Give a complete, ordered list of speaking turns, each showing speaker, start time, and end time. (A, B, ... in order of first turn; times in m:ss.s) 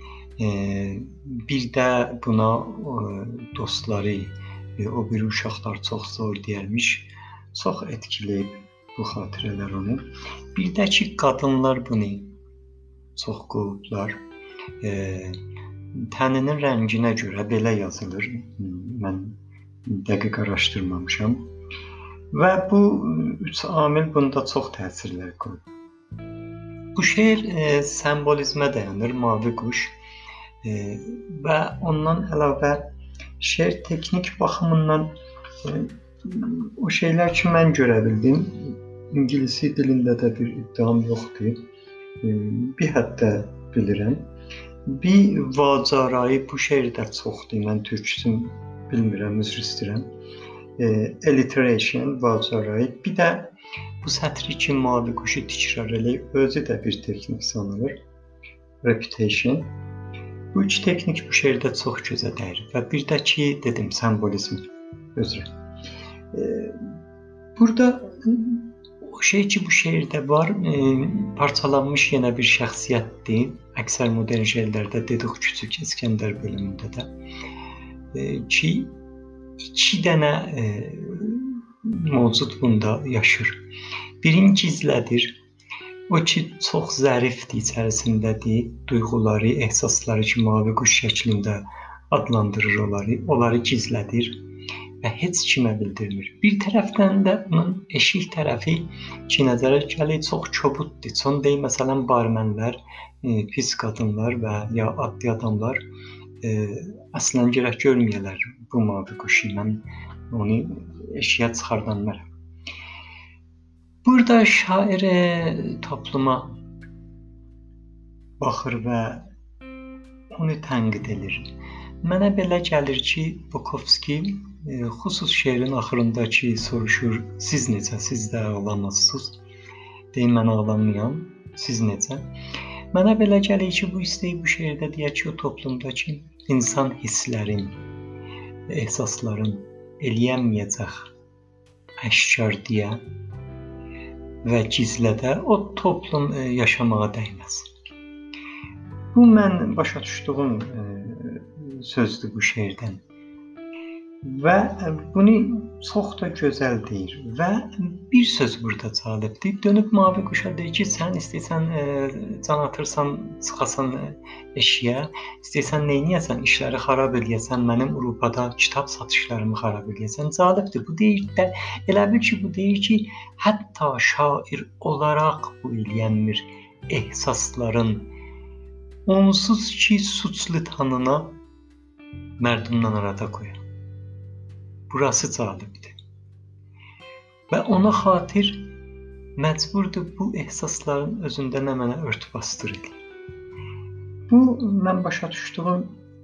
0:00.4-0:10.0 A
0:10.5-0:12.4 A
0:13.2-0:14.2 A
0:14.8-0:15.4 A
0:16.0-0:21.4 A
0:22.3-0:25.6 A
0:27.0-0:30.0 A
0:30.6-0:32.9 A
0:33.4-0:35.1 A
0:35.6-0:41.6 A
0:42.2-0:44.3 A
0:44.9-0:50.1 A
0:50.8-0:53.5 A
0:54.0-0:58.0 A
0:58.8-0:59.7 A
1:00.5-1:04.6 A
1:05.2-1:05.5 A
1:06.3-1:07.0 A
1:07.6-1:17.1 A
1:18.1-1:19.0 A
1:19.6-1:23.6 A
1:24.2-1:25.4 A
1:26.1-1:34.4 A
1:35.0-1:45.8 A
1:46.4-1:52.3 A
1:54.0-1:56.6 A
1:58.4-1:59.2 A
2:00.3-2:01.5 A
2:02.0-2:09.4 A
2:10.1-2:12.2 A
2:12.9-2:17.8 A
2:18.7-2:21.1 A
2:22.0-2:23.0 A
2:24.4-2:27.7 A
2:29.1-2:33.0 A
2:34.2-2:58.1 A
2:59.1-3:01.4 A
3:02.4-3:03.6 A
3:04.9-3:06.0 A
3:07.5-3:08.7 A
3:09.4-3:13.0 A
3:14.3-3:16.0 A